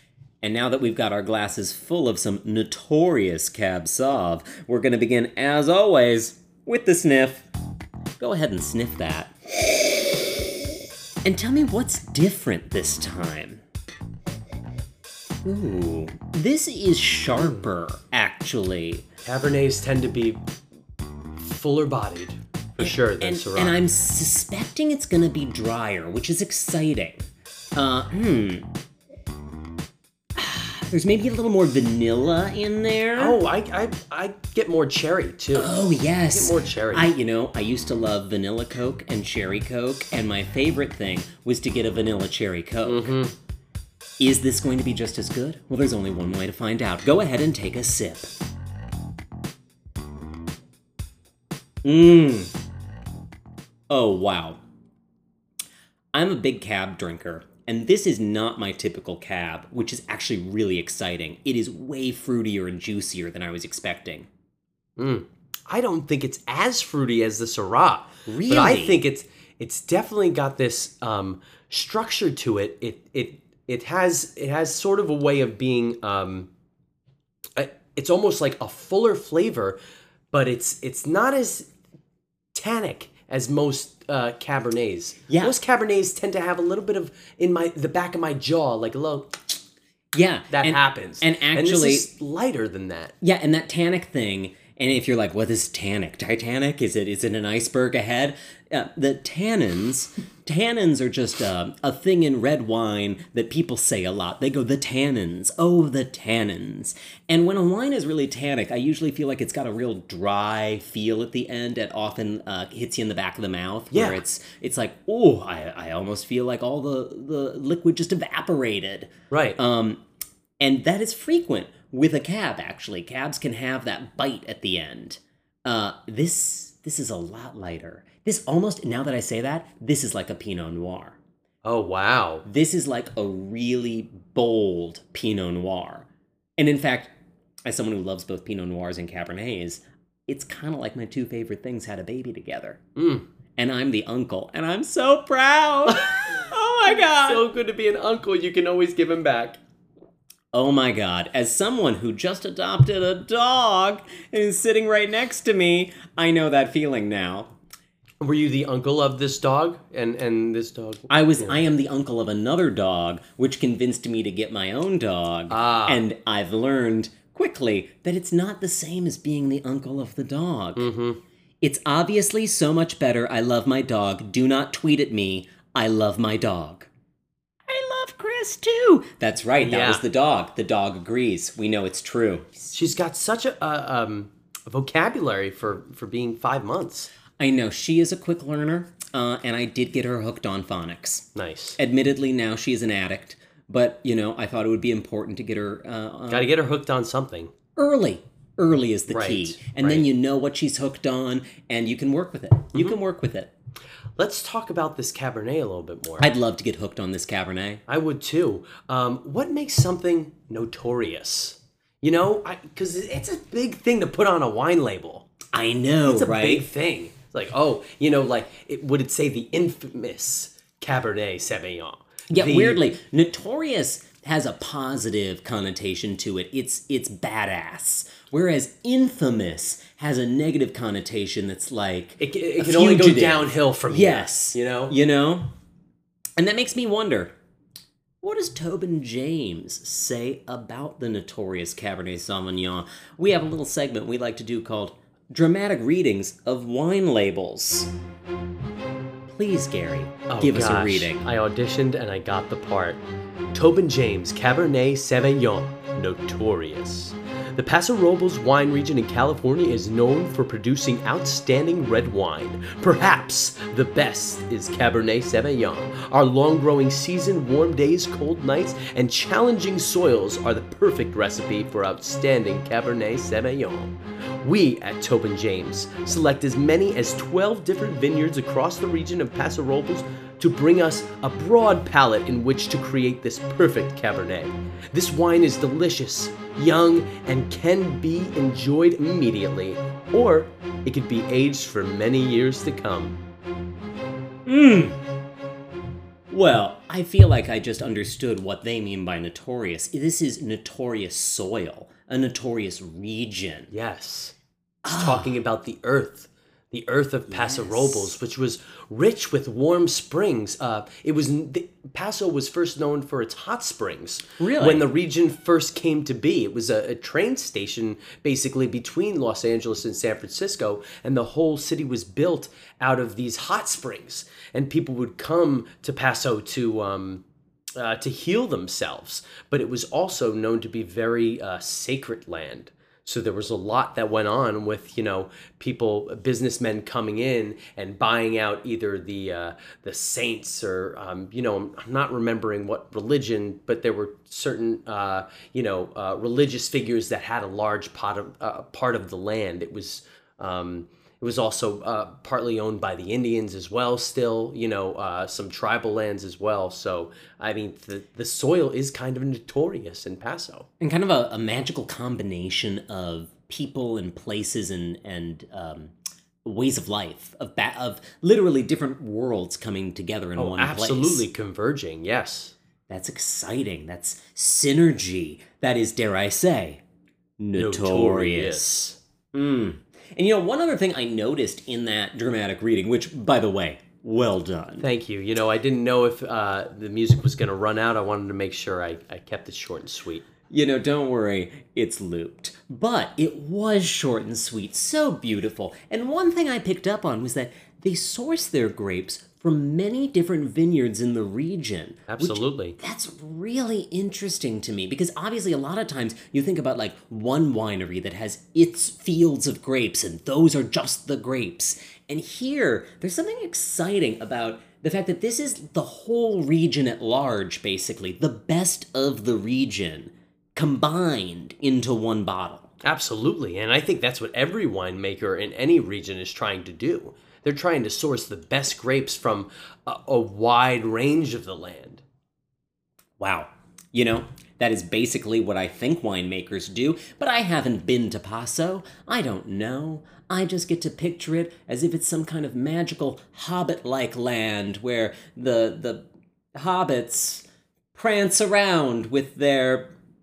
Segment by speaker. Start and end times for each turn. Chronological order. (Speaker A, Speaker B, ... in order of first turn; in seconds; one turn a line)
Speaker A: 0.4-7.5
Speaker A: 8.2-9.3
Speaker A: 11.2-13.6
Speaker A: 15.4-19.1
Speaker B: 19.2-20.4
Speaker B: 21.4-23.8
Speaker A: 22.8-27.2
Speaker A: 27.8-28.7
Speaker A: 30.4-33.4
Speaker B: 33.2-35.7
Speaker A: 35.5-43.2
Speaker B: 36.3-37.1
Speaker B: 42.9-43.3
Speaker A: 44.2-48.3
Speaker A: 51.8-52.5
Speaker A: 53.9-54.6
Speaker A: 56.1-64.3
Speaker B: 65.0-76.5
Speaker A: 68.3-69.0
Speaker B: 77.6-79.8
Speaker B: 80.3-81.7
Speaker B: 82.5-89.4
Speaker A: 85.3-85.5
Speaker A: 90.1-92.1
Speaker B: 90.5-93.1
Speaker A: 93.2-120.0
Speaker B: 113.9-114.2
Speaker B: 119.3-119.6
Speaker A: 120.6-131.2
Speaker B: 131.6-132.4
Speaker A: 132.4-137.1
Speaker A: 137.7-142.8
Speaker B: 143.0-143.2
Speaker A: 143.6-147.4
Speaker B: 145.9-146.3
Speaker B: 146.8-149.6
Speaker A: 150.5-157.5
Speaker B: 158.2-161.6
Speaker A: 161.1-170.9
Speaker B: 165.5-166.0
Speaker B: 170.8-171.2
Speaker A: 171.6-176.9
Speaker A: 177.7-182.7
Speaker B: 179.6-180.0
Speaker B: 182.7-187.1
Speaker A: 187.4-196.5
Speaker B: 191.3-191.8
Speaker B: 196.3-197.5
Speaker A: 197.8-203.5
Speaker B: 199.1-200.1
Speaker B: 204.2-206.3
Speaker A: 206.2-207.8
Speaker B: 207.9-215.3
Speaker A: 215.5-216.7
Speaker B: 216.1-222.8
Speaker A: 222.3-235.5
Speaker B: 232.2-235.0
Speaker A: 236.4-237.3
Speaker A: 238.2-247.9
Speaker A: 249.3-251.2
Speaker B: 250.3-253.0
Speaker B: 253.5-293.2
Speaker A: 294.5-295.0
Speaker A: 296.3-303.7
Speaker B: 303.7-304.3
Speaker A: 304.8-305.3
Speaker B: 304.9-327.2
Speaker A: 307.3-308.1
Speaker A: 314.4-314.9
Speaker B: 327.8-360.7
Speaker A: 360.8-365.9
Speaker A: 366.4-371.3
Speaker B: 370.4-372.6
Speaker A: 372.9-376.8
Speaker A: 377.4-384.9
Speaker B: 377.6-379.0
Speaker B: 384.8-390.3
Speaker A: 390.5-422.7
Speaker B: 402.1-402.8
Speaker B: 422.8-432.0
Speaker A: 433.2-449.9